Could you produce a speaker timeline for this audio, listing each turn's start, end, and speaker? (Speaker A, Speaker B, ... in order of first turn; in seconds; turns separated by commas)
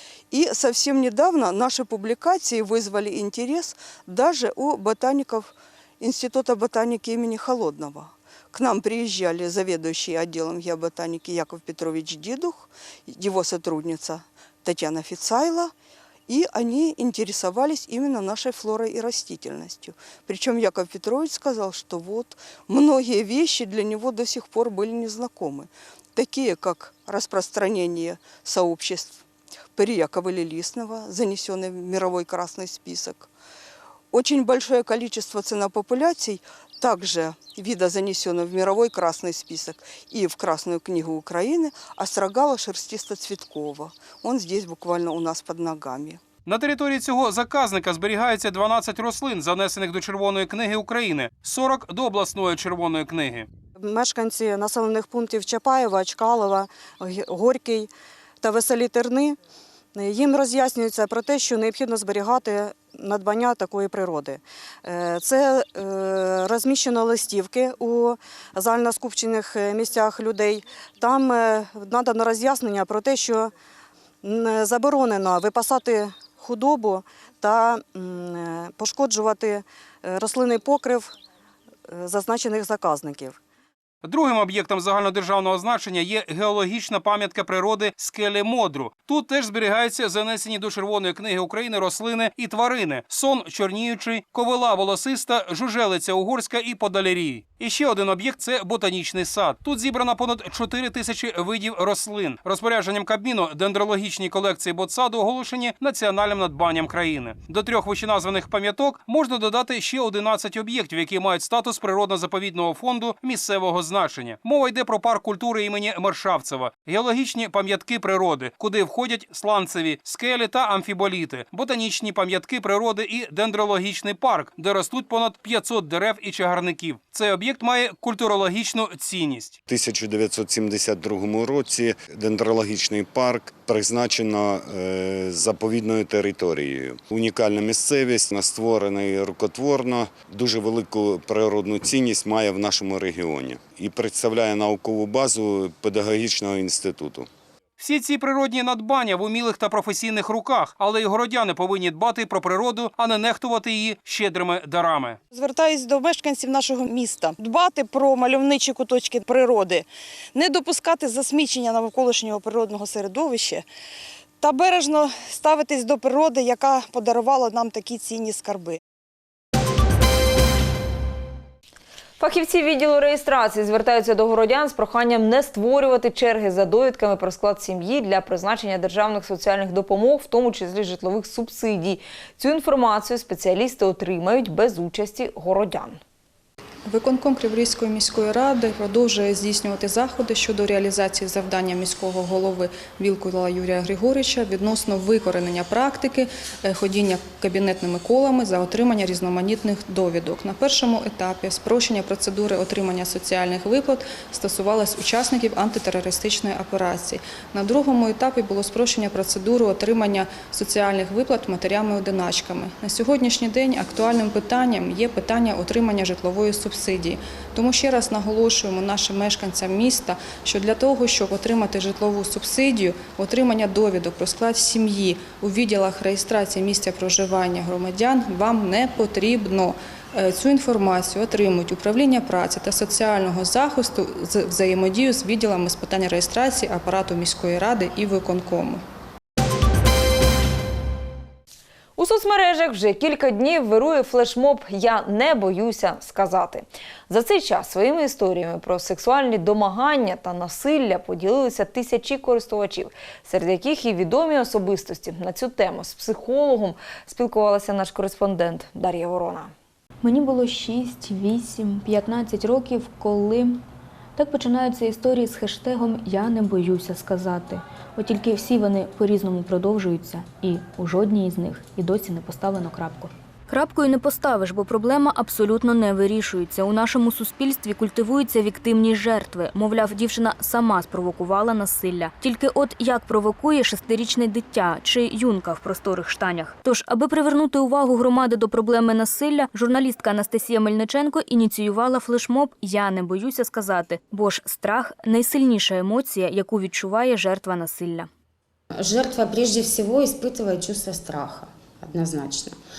Speaker A: 0.3-15.7, Speaker A: 16.3-33.3, Speaker A: 34.1-46.2, Speaker B: 46.5-53.5, Speaker C: 53.8-59.4, Speaker C: 59.9-73.5, Speaker C: 74.2-81.2, Speaker C: 81.9-83.4, Speaker B: 84.0-129.6, Speaker D: 129.7-147.3, Speaker B: 147.8-155.2, Speaker E: 155.3-163.6, Speaker E: 164.4-168.8, Speaker F: 172.2-186.0, Speaker G: 186.8-238.8, Speaker F: 242.0-259.5, Speaker H: 260.0-263.6, Speaker H: 264.1-298.1, Speaker I: 298.8-302.6